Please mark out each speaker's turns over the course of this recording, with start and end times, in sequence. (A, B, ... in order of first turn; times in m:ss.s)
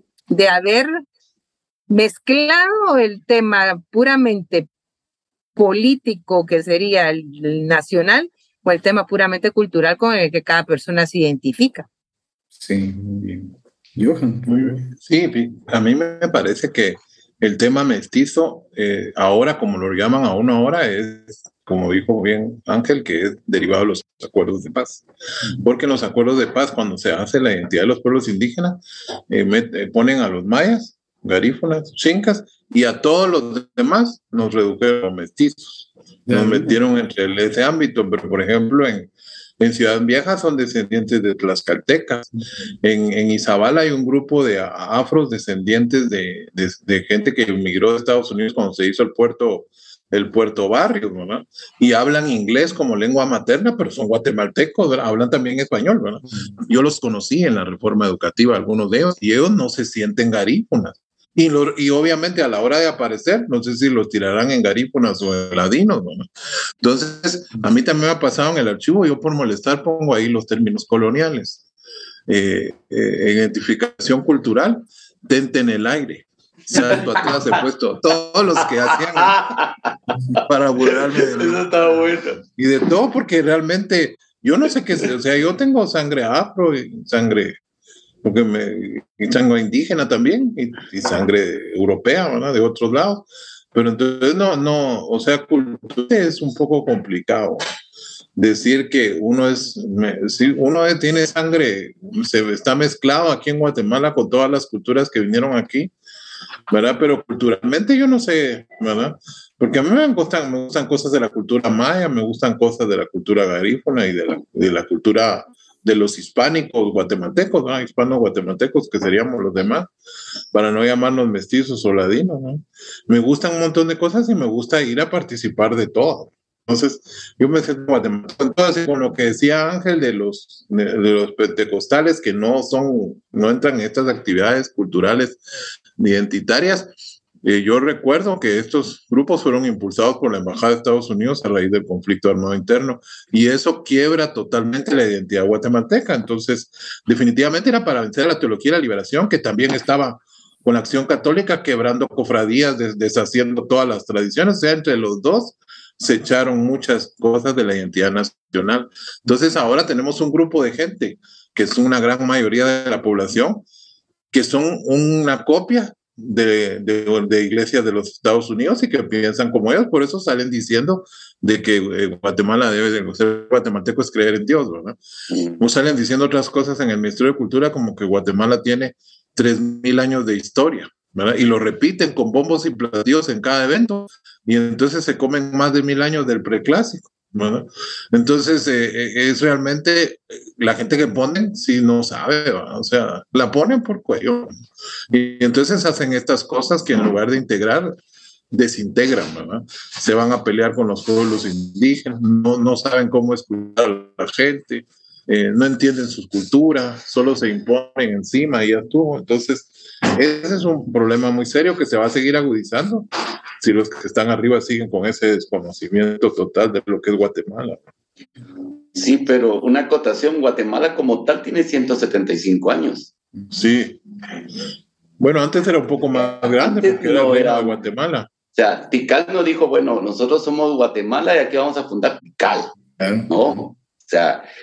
0:00.3-0:00.9 A
0:01.9-0:04.7 A
0:05.6-0:11.9 A
0:12.6-0:14.8 B
0:14.5-0:25.0 C
0:25.6-0:42.3 C
0:36.3-0:36.8 B
0:42.8-1:06.3 C
1:06.8-1:11.6 C
1:12.3-1:19.4 C
1:16.7-1:17.6 D
1:18.9-1:22.4 D
1:20.4-1:21.7 C
1:22.6-1:27.6 C
1:28.2-1:37.6 C
1:38.4-1:45.9 C
1:46.7-1:59.9 C
2:00.5-2:15.4 C
2:16.0-2:43.6 C
2:44.3-2:55.0 C
2:55.6-3:14.5 C
3:15.1-3:18.0 C
3:18.5-3:33.1 C
3:33.6-3:37.8 C
3:39.0-3:43.1 D
3:43.5-3:44.4 C
3:45.2-3:48.3 C
3:46.2-3:47.8 D
3:48.6-3:52.8 D
3:53.0-3:53.7 B
3:53.3-3:54.5 D